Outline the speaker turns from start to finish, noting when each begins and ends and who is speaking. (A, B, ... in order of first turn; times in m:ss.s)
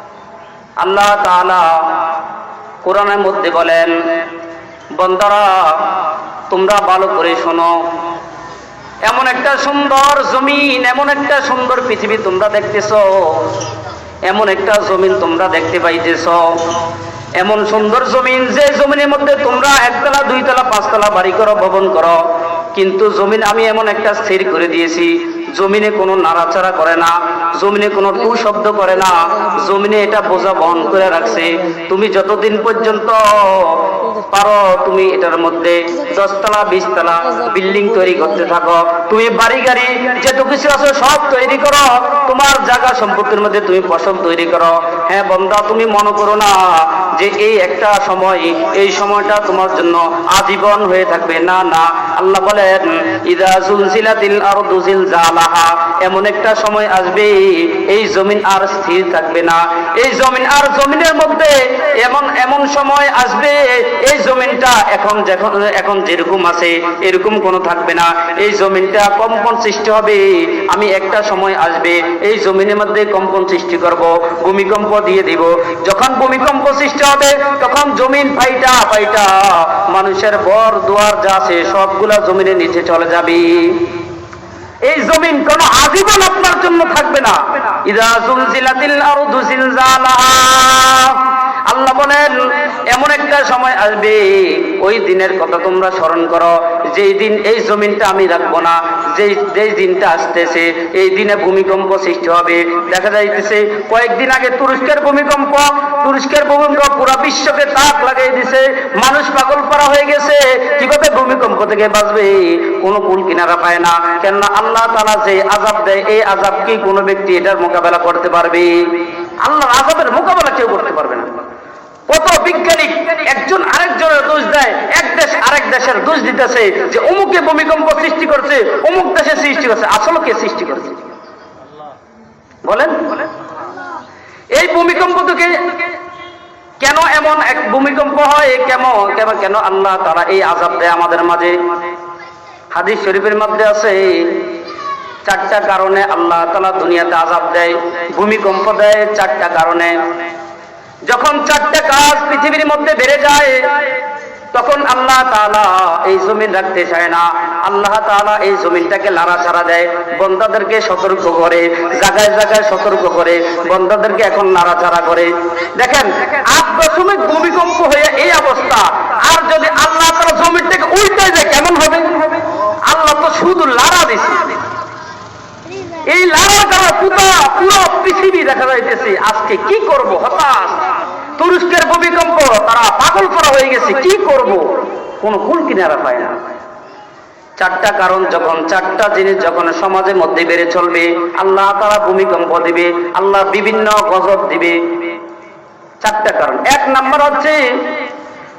0:00.8-0:02.0 A
0:02.8-0:04.0 A
0:04.9-0:06.0 A
0:06.5-0:07.8 A
0:09.0-0:13.5 A
0:14.2-0:16.6 A
0:17.4-0:22.2 A
0:22.7-1:23.9 A
1:24.8-2:01.4 A
2:02.1-2:11.1 A
2:12.6-2:13.1 A
2:14.5-2:15.8 A
2:16.8-2:21.6 A
2:22.7-2:24.5 A
2:25.2-2:30.0 A
2:31.1-2:33.9 A
2:34.5-2:54.6 A
2:56.0-3:06.4 A
3:07.6-3:15.1 A
3:16.0-3:17.8 A